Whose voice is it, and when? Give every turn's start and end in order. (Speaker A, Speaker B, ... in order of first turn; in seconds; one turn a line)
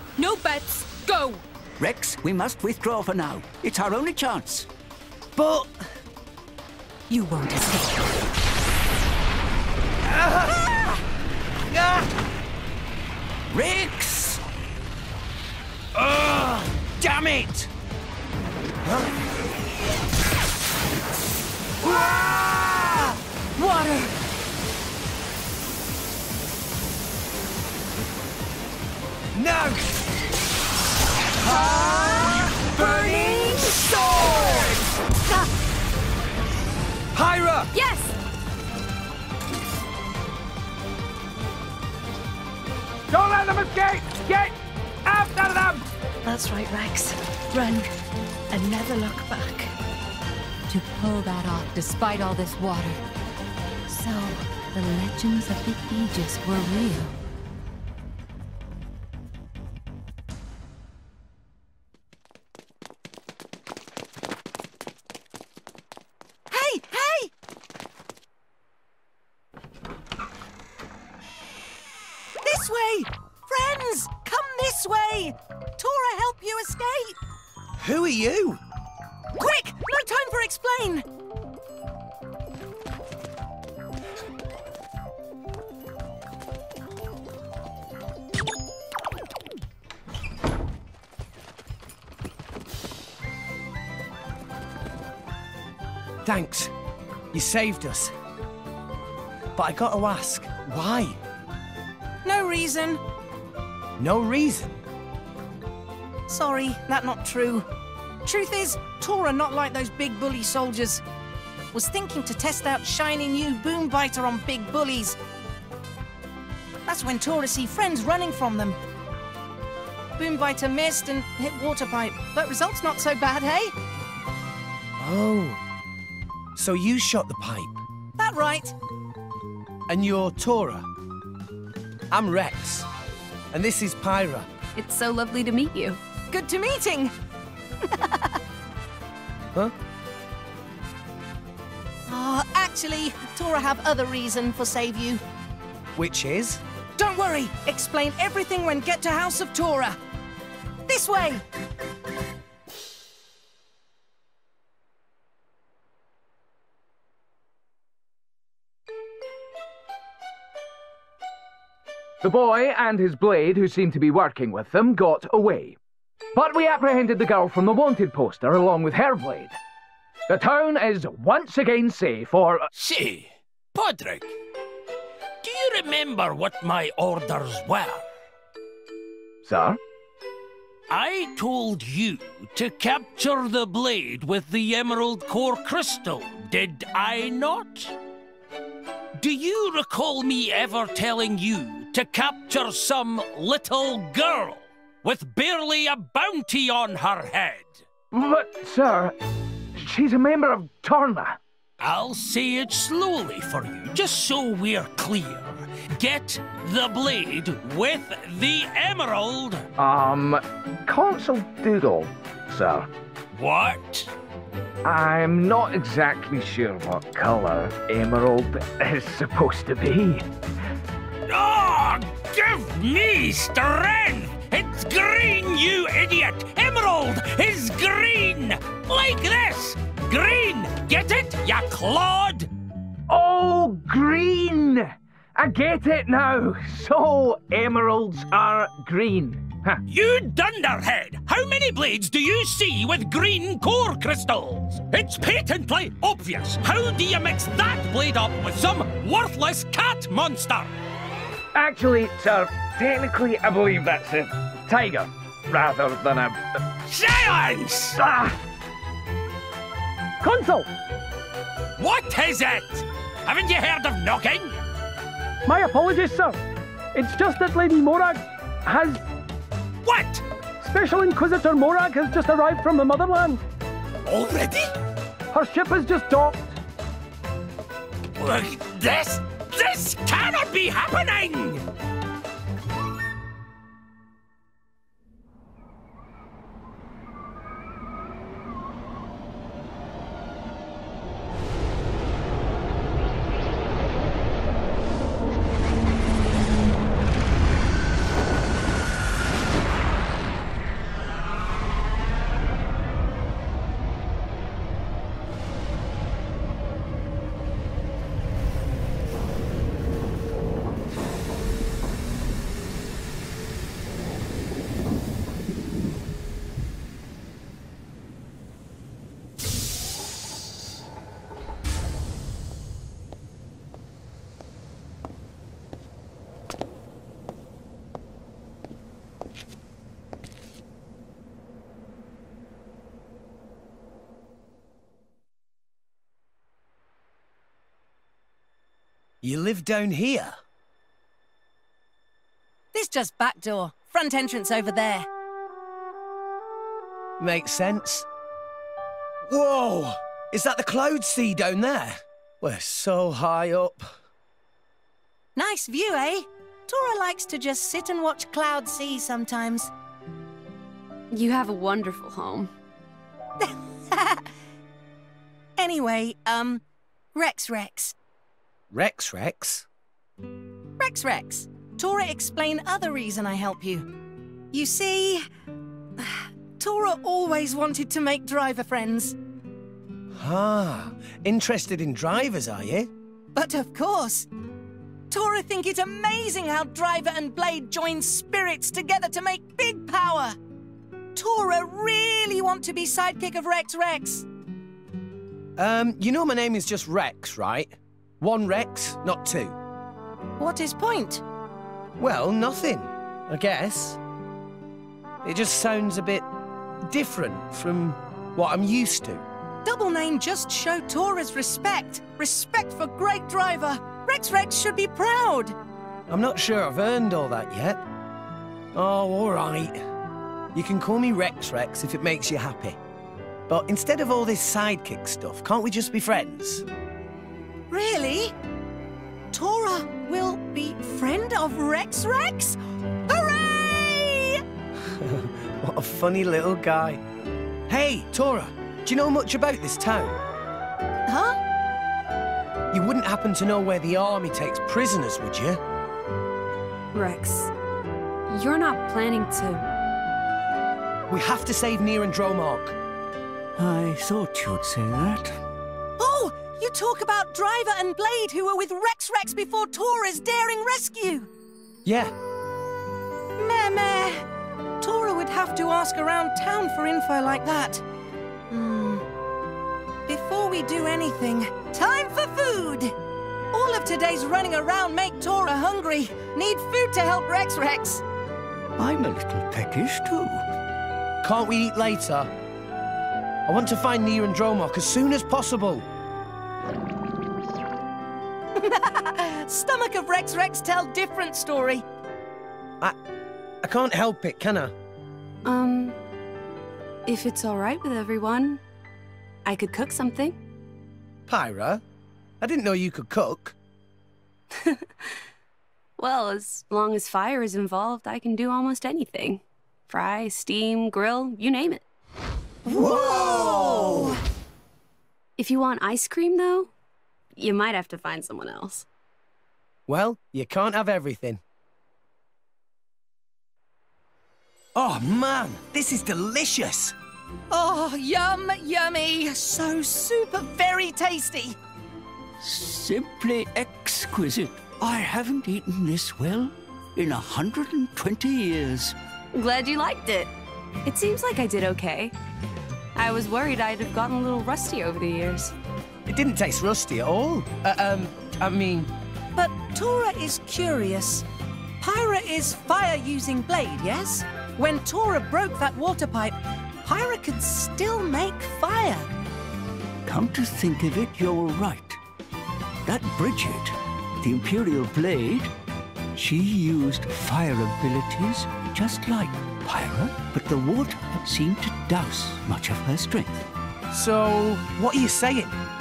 Speaker A: 0.2-1.4
Speaker B: 1.8-4.7
Speaker C: 5.3-5.7
Speaker D: 7.1-7.9
Speaker C: 10.1-10.9
Speaker C: 11.7-12.1
Speaker B: 13.5-14.4
Speaker C: 15.9-17.7
Speaker C: 18.8-19.2
Speaker C: 21.8-23.6
Speaker C: 29.3-30.0
Speaker C: 31.4-34.8
Speaker A: 31.4-34.5
Speaker C: 37.1-37.7
Speaker A: 37.7-38.1
Speaker E: 43.1-45.9
Speaker A: 46.2-47.9
Speaker A: 48.5-49.7
Speaker D: 50.7-53.0
Speaker A: 53.9-54.4
Speaker D: 54.7-57.1
Speaker F: 66.5-67.3
Speaker F: 72.4-77.2
Speaker C: 77.8-78.6
Speaker F: 79.4-81.0
Speaker C: 96.2-96.7
Speaker C: 97.3-98.1
Speaker C: 99.5-101.2
Speaker F: 102.2-103.0
Speaker C: 104.0-104.8
Speaker F: 106.3-107.7
Speaker F: 108.2-111.0
Speaker F: 111.7-115.2
Speaker F: 116.9-118.8
Speaker F: 120.2-123.7
Speaker C: 125.0-125.6
Speaker C: 126.5-127.8
Speaker F: 128.2-128.7
Speaker C: 129.9-130.9
Speaker C: 132.1-132.9
Speaker C: 133.5-134.5
Speaker G: 134.8-136.0
Speaker F: 136.3-137.1
Speaker F: 142.1-145.2
Speaker C: 146.0-146.6
Speaker F: 147.0-150.0
Speaker F: 150.9-151.4
Speaker E: 162.2-165.8
Speaker E: 166.3-169.6
Speaker E: 170.3-172.7
Speaker H: 172.8-174.3
Speaker H: 175.4-178.1
Speaker E: 179.4-179.8
Speaker H: 180.9-188.0
Speaker H: 189.2-197.8
Speaker E: 198.1-199.2
Speaker E: 199.8-201.4
Speaker H: 201.8-209.7
Speaker E: 209.8-212.9
Speaker H: 213.3-214.1
Speaker E: 214.8-220.3
Speaker H: 221.3-232.5
Speaker E: 233.1-239.8
Speaker H: 239.9-250.7
Speaker E: 251.6-256.4
Speaker H: 256.9-258.0
Speaker E: 258.0-258.4
Speaker E: 260.2-260.7
Speaker H: 261.8-264.6
Speaker E: 265.5-266.4
Speaker E: 266.9-269.0
Speaker H: 269.8-270.2
Speaker E: 270.6-273.4
Speaker H: 274.1-274.7
Speaker E: 275.3-276.6
Speaker H: 278.2-281.6
Speaker C: 339.2-340.4
Speaker F: 342.7-345.1
Speaker C: 347.2-348.1
Speaker C: 349.3-353.9
Speaker F: 355.4-359.7
Speaker G: 361.1-362.5
Speaker F: 363.4-364.2
Speaker F: 365.6-366.6
Speaker F: 367.1-367.9
Speaker C: 368.7-369.7
Speaker F: 370.8-373.9
Speaker F: 374.5-375.3
Speaker F: 376.0-379.1
Speaker C: 380.1-382.9
Speaker F: 383.3-384.3
Speaker F: 385.1-390.4
Speaker F: 391.2-394.2
Speaker C: 395.6-399.6
Speaker F: 400.4-401.2
Speaker C: 402.0-404.0
Speaker C: 405.2-406.3
Speaker C: 406.9-409.2
Speaker F: 409.6-415.6
Speaker C: 416.1-417.8
Speaker C: 418.7-419.8
Speaker C: 420.5-422.8
Speaker C: 423.5-426.6
Speaker F: 427.7-428.3
Speaker F: 429.3-434.4
Speaker C: 434.9-437.0
Speaker C: 437.7-440.2
Speaker F: 441.1-441.4
Speaker C: 442.7-445.6
Speaker G: 446.9-447.5
Speaker G: 448.3-449.7
Speaker C: 451.1-452.8
Speaker B: 453.6-455.4
Speaker F: 456.0-461.3
Speaker C: 461.9-462.1
Speaker F: 463.4-464.2
Speaker F: 464.8-467.8
Speaker F: 468.5-469.1
Speaker F: 470.1-472.9
Speaker F: 473.5-478.0
Speaker B: 478.8-480.5
Speaker C: 481.2-482.3
Speaker C: 483.5-485.9
Speaker F: 488.6-491.8
Speaker C: 493.6-494.7
Speaker G: 495.4-496.0
Speaker G: 497.1-498.6
Speaker G: 499.4-500.4
Speaker C: 501.3-501.8
Speaker C: 502.4-503.6
Speaker G: 504.6-504.9
Speaker G: 506.0-511.8
Speaker F: 512.7-514.2
Speaker C: 512.7-514.2
Speaker G: 515.4-516.7
Speaker G: 517.4-518.9
Speaker C: 519.9-521.4
Speaker C: 524.8-527.0
Speaker F: 527.5-531.6
Speaker B: 532.4-539.0
Speaker G: 539.3-540.3
Speaker G: 540.9-542.1
Speaker G: 543.0-545.5
Speaker C: 546.1-548.9
Speaker F: 549.4-551.3
Speaker F: 551.8-559.1
Speaker B: 560.0-562.0
Speaker B: 562.9-565.5
Speaker B: 566.1-573.5
Speaker C: 573.9-575.6